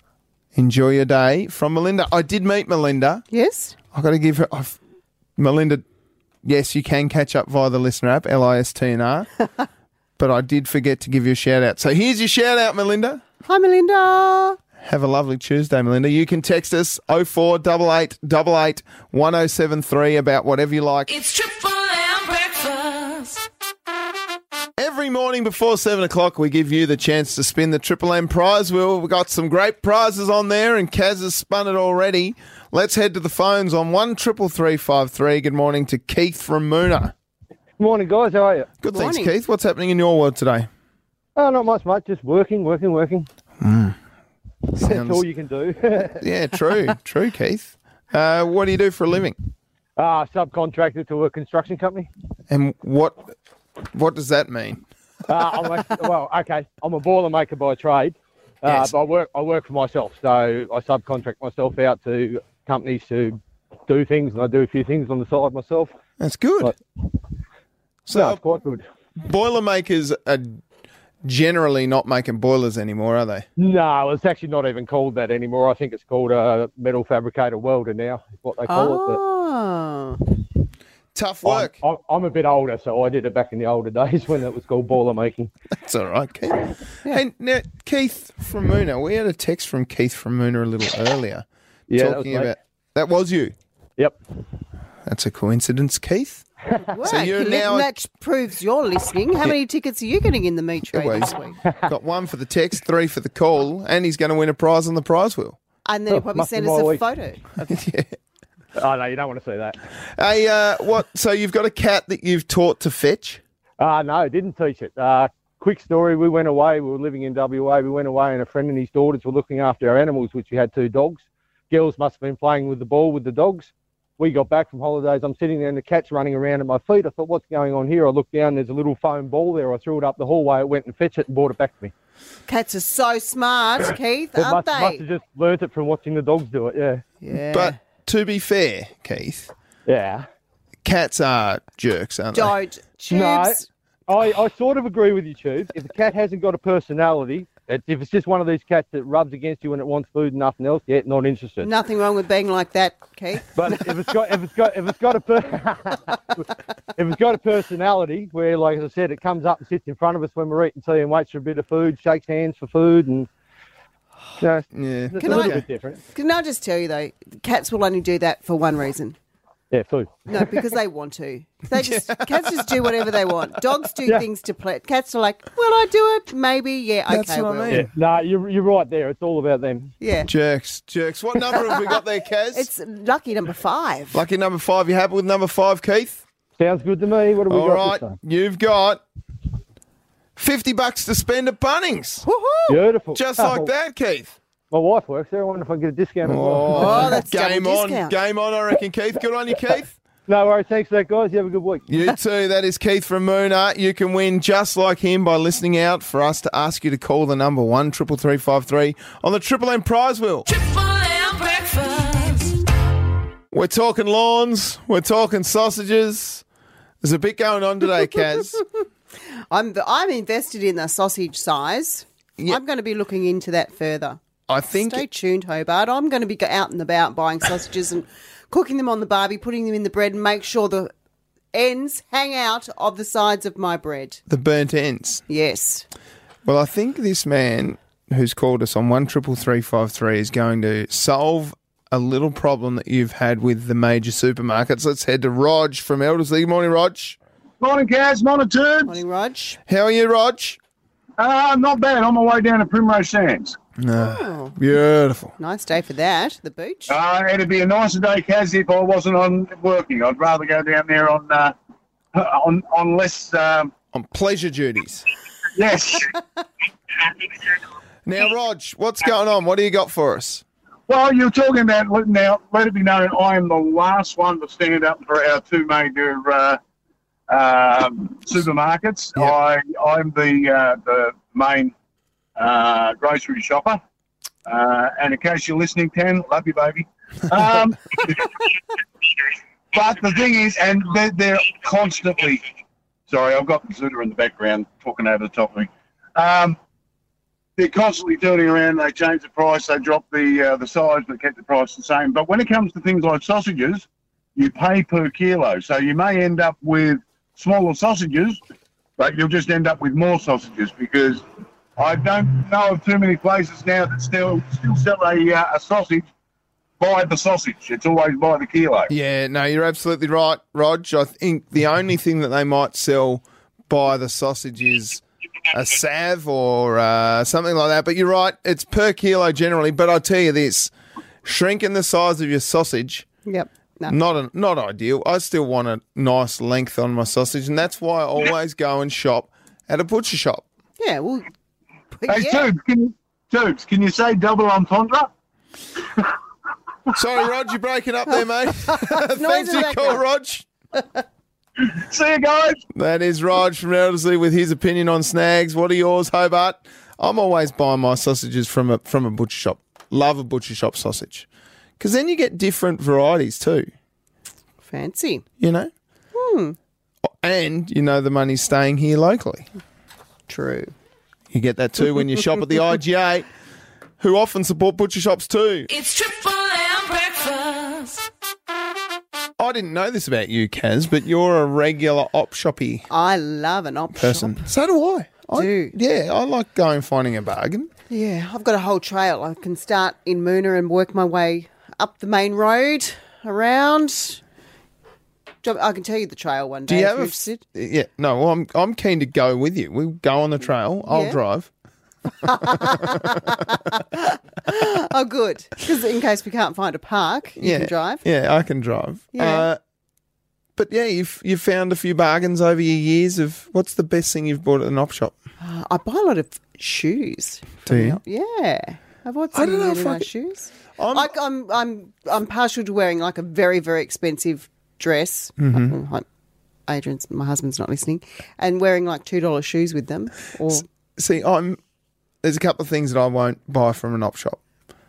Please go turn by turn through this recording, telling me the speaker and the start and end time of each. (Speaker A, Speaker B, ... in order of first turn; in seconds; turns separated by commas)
Speaker A: 0.5-3.2, Speaker B: 3.3-3.8, Speaker A: 3.9-4.8, Speaker A: 5.4-5.8, Speaker A: 6.4-9.3, Speaker A: 10.2-13.2, Speaker B: 13.4-14.6, Speaker A: 14.8-21.3, Speaker C: 22.6-22.8, Speaker A: 24.8-37.1, Speaker D: 37.8-38.7, Speaker A: 38.8-40.7, Speaker B: 38.9-39.3, Speaker D: 41.4-43.3, Speaker A: 43.6-44.0, Speaker A: 44.8-45.2, Speaker D: 44.8-46.2, Speaker A: 46.2-49.4, Speaker D: 50.0-52.1, Speaker A: 52.5-53.3, Speaker A: 53.9-54.8, Speaker D: 55.3-65.9, Speaker A: 58.6-58.9, Speaker A: 66.2-66.7, Speaker A: 68.1-68.4, Speaker D: 68.1-68.8, Speaker A: 69.2-70.6, Speaker A: 71.2-73.5, Speaker D: 73.6-79.2, Speaker B: 78.7-80.2, Speaker A: 81.1-81.8, Speaker D: 81.4-85.5, Speaker A: 85.8-91.4, Speaker D: 91.9-92.5, Speaker A: 92.0-93.5, Speaker A: 95.0-96.4, Speaker B: 96.9-101.6, Speaker A: 97.0-97.9, Speaker A: 100.9-105.6, Speaker B: 105.8-107.8, Speaker D: 106.1-107.0, Speaker A: 107.7-108.2, Speaker D: 108.8-109.8, Speaker A: 110.2-113.4, Speaker D: 113.8-131.9, Speaker B: 132.5-135.0, Speaker D: 134.4-137.0, Speaker B: 137.2-137.8, Speaker A: 137.5-139.5, Speaker D: 139.8-140.3, Speaker A: 140.8-142.5, Speaker B: 142.3-143.7, Speaker D: 143.1-151.7, Speaker B: 151.6-154.1, Speaker D: 153.6-156.4, Speaker D: 156.9-163.3, Speaker D: 164.4-166.0, Speaker A: 164.7-165.6, Speaker B: 165.2-165.6, Speaker B: 166.1-169.2, Speaker D: 169.7-170.6, Speaker B: 170.3-177.8, Speaker A: 171.8-173.0, Speaker A: 177.1-177.9, Speaker D: 177.7-179.9, Speaker B: 180.0-180.3, Speaker A: 180.3-182.7, Speaker B: 181.7-181.9, Speaker B: 182.5-184.2, Speaker A: 184.1-186.2, Speaker D: 186.6-188.2, Speaker A: 187.5-189.0, Speaker A: 190.3-192.2, Speaker B: 192.2-192.8, Speaker D: 192.7-193.7, Speaker A: 193.1-194.3, Speaker D: 194.7-197.2, Speaker A: 196.2-199.9, Speaker B: 196.7-198.1, Speaker D: 200.3-201.8, Speaker A: 201.9-210.6, Speaker C: 211.4-211.8, Speaker A: 213.5-216.4, Speaker A: 217.0-218.6, Speaker B: 219.5-224.2, Speaker A: 224.5-225.0, Speaker B: 224.7-230.9, Speaker B: 231.5-234.2, Speaker A: 234.3-235.2, Speaker B: 235.3-235.8, Speaker A: 236.4-247.2, Speaker E: 247.6-249.0, Speaker B: 248.8-249.6, Speaker A: 249.7-250.6, Speaker E: 251.2-253.6, Speaker A: 253.8-255.3, Speaker B: 253.9-254.6, Speaker B: 255.4-256.9, Speaker E: 256.9-261.5, Speaker E: 262.1-263.7, Speaker A: 263.9-265.0, Speaker E: 265.5-266.1, Speaker E: 267.0-267.5, Speaker A: 268.1-270.4, Speaker E: 270.9-276.6, Speaker E: 277.3-281.7, Speaker E: 282.4-283.8, Speaker E: 284.5-288.5, Speaker E: 289.7-292.4, Speaker E: 293.1-296.6, Speaker E: 297.6-308.4, Speaker E: 309.0-311.2, Speaker E: 311.8-316.0, Speaker E: 316.8-318.9, Speaker A: 318.9-330.7, Speaker A: 331.2-333.1, Speaker B: 333.2-333.9, Speaker A: 333.9-340.4, Speaker B: 340.8-341.2, Speaker B: 341.9-342.5, Speaker E: 342.1-345.1, Speaker A: 346.9-350.5, Speaker B: 348.7-350.0, Speaker E: 351.6-352.6, Speaker A: 352.7-361.3, Speaker A: 361.8-363.7, Speaker B: 364.6-365.2, Speaker A: 365.4-365.7, Speaker B: 366.1-366.6, Speaker A: 367.0-369.5, Speaker B: 370.3-370.7, Speaker A: 371.3-373.3, Speaker A: 374.0-375.8, Speaker C: 375.8-378.0, Speaker A: 379.4-382.9, Speaker B: 382.9-384.5, Speaker A: 383.9-387.7, Speaker B: 385.3-385.7, Speaker B: 387.9-394.2, Speaker B: 395.4-397.4, Speaker A: 396.7-401.5, Speaker B: 400.9-401.2, Speaker B: 402.2-408.0, Speaker A: 402.5-403.2, Speaker A: 407.4-409.6, Speaker B: 409.1-409.5, Speaker A: 410.6-415.2, Speaker B: 415.4-426.1, Speaker A: 417.6-418.0, Speaker A: 419.3-420.1, Speaker A: 420.8-421.1, Speaker A: 425.4-425.8, Speaker B: 426.7-430.6, Speaker A: 431.0-431.6, Speaker A: 432.2-434.4